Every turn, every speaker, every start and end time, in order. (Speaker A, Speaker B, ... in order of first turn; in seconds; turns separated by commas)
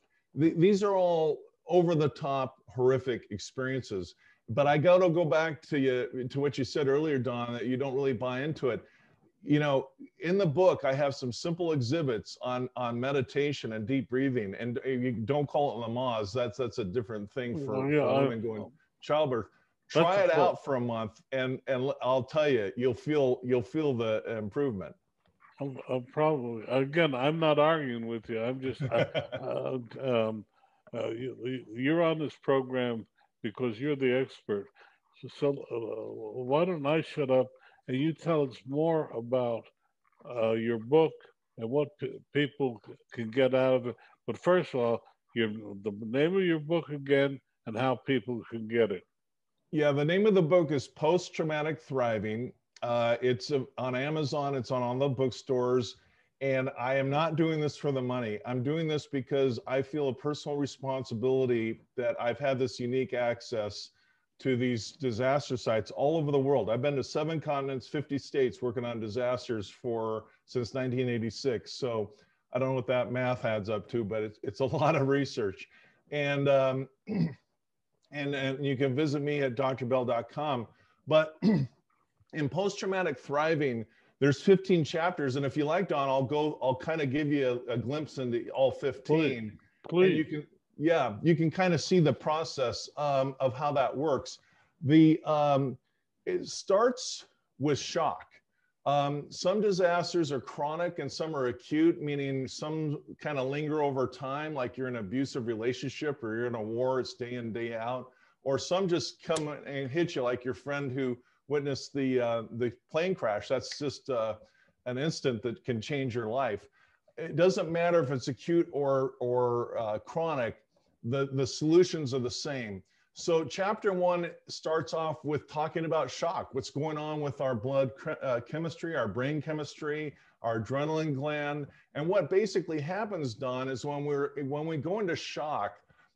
Speaker A: 0.3-8.8, Speaker A: 9.4-24.9, Speaker B: 17.5-18.4, Speaker B: 19.9-20.5, Speaker B: 25.6-39.7, Speaker A: 29.0-29.4, Speaker B: 40.2-49.0, Speaker A: 49.7-77.3, Speaker A: 78.1-81.7, Speaker A: 82.3-135.8, Speaker B: 89.1-90.2